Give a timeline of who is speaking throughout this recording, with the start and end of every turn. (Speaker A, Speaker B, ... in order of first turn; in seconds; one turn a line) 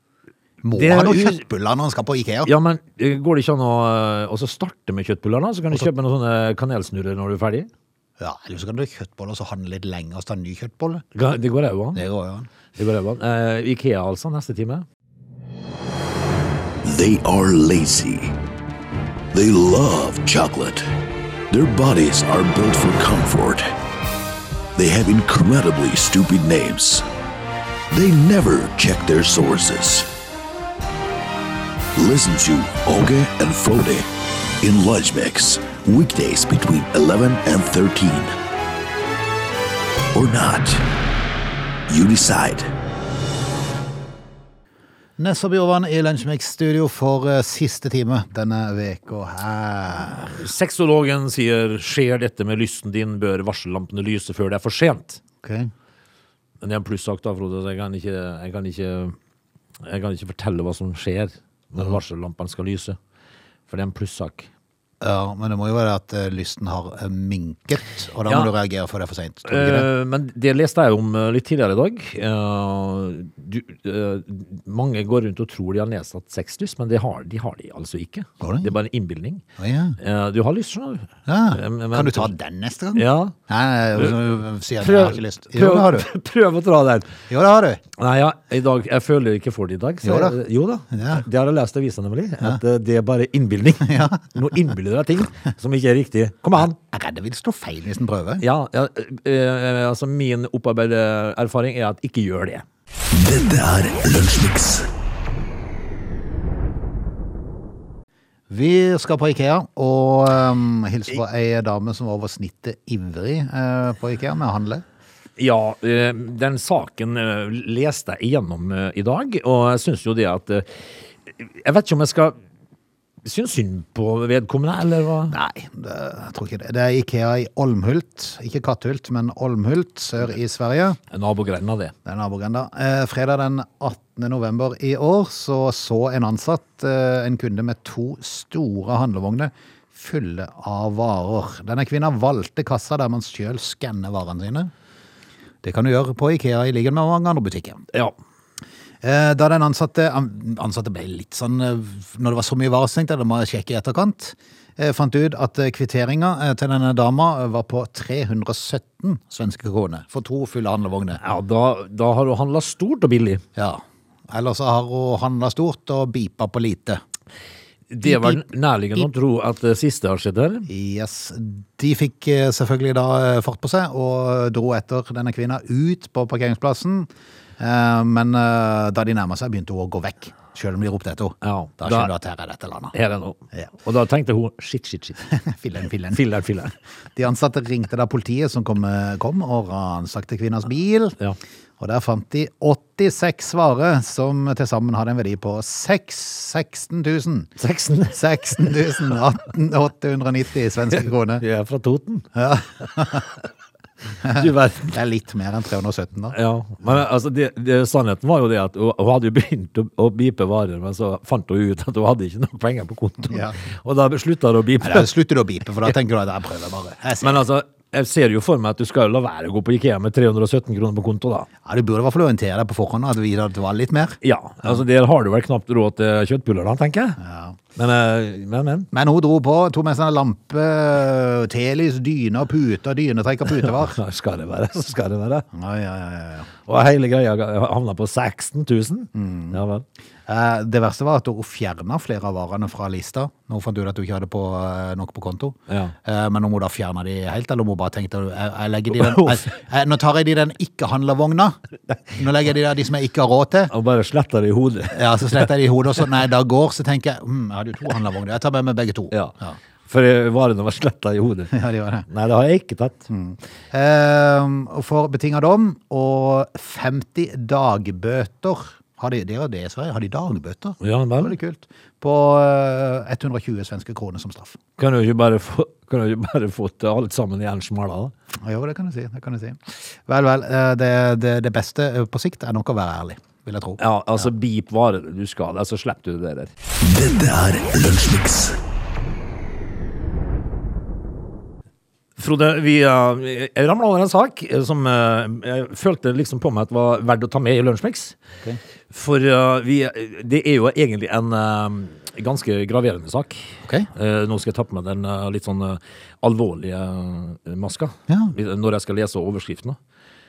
Speaker A: 0.6-2.5
Speaker B: 0.7-1.4
Speaker B: 2.5-7.7
Speaker A: 8.2-11.1
Speaker B: 11.1-12.0
Speaker A: 11.9-12.5
Speaker B: 12.8-14.9
Speaker C: 16.8-18.3
Speaker C: 19.3-20.9
Speaker C: 21.5-23.7
Speaker C: 24.8-27.1
Speaker C: 27.9-30.1
Speaker C: 32.0-34.1
Speaker C: 34.6-38.3
Speaker C: 40.1-40.8
Speaker C: 41.9-42.7
Speaker A: 45.2-50.4
Speaker B: 50.3-55.2
Speaker A: 55.4-55.7
Speaker B: 56.6-59.2
Speaker B: 59.8-63.0
Speaker B: 63.7-64.5
Speaker A: 65.0-69.9
Speaker B: 68.3-68.5
Speaker B: 69.5-79.4
Speaker A: 78.4-78.7
Speaker A: 79.6-80.0
Speaker B: 80.0-82.3
Speaker A: 81.3-86.1
Speaker B: 83.0-83.3
Speaker B: 84.8-87.1
Speaker A: 87.3-87.8
Speaker B: 88.0-96.8
Speaker A: 90.0-90.4
Speaker A: 90.9-91.2
Speaker A: 93.8-94.6
Speaker A: 96.6-98.4
Speaker B: 98.4-102.7
Speaker C: 103.1-104.9
Speaker A: 108.5-114.8
Speaker B: 115.4-122.4
Speaker B: 123.2-125.3
Speaker A: 125.3-131.0
Speaker B: 131.1-131.9
Speaker A: 132.1-144.7
Speaker A: 145.6-147.9
Speaker A: 149.0-161.2
Speaker B: 161.2-163.4
Speaker A: 163.6-167.0
Speaker B: 167.9-170.7
Speaker A: 168.0-168.4
Speaker A: 170.7-177.1
Speaker A: 177.6-182.9
Speaker B: 181.4-182.1
Speaker B: 182.9-185.2
Speaker A: 185.3-186.2
Speaker B: 186.1-186.7
Speaker A: 187.2-191.2
Speaker A: 191.8-197.5
Speaker B: 197.6-198.8
Speaker A: 198.1-201.4
Speaker B: 201.4-202.3
Speaker A: 202.3-203.3
Speaker A: 204.2-206.4
Speaker B: 204.3-204.9
Speaker B: 206.3-215.1
Speaker A: 213.3-213.6
Speaker A: 214.8-217.4
Speaker B: 217.2-221.5
Speaker A: 221.7-224.8
Speaker B: 224.2-227.2
Speaker A: 227.2-227.6
Speaker B: 227.8-228.9
Speaker A: 228.9-234.0
Speaker B: 233.5-235.5
Speaker A: 235.5-236.5
Speaker B: 236.7-239.8
Speaker A: 239.2-239.6
Speaker A: 240.3-253.7
Speaker B: 245.7-245.9
Speaker B: 248.9-249.5
Speaker B: 253.7-255.5
Speaker A: 254.9-259.6
Speaker B: 259.1-259.4
Speaker B: 259.9-261.5
Speaker A: 261.5-262.1
Speaker B: 262.1-263.1
Speaker A: 263.1-274.6
Speaker B: 270.8-271.4
Speaker B: 274.8-278.1
Speaker A: 278.4-284.3
Speaker B: 283.8-286.5
Speaker C: 286.8-288.6
Speaker B: 292.2-298.2
Speaker B: 298.9-309.8
Speaker A: 308.1-308.3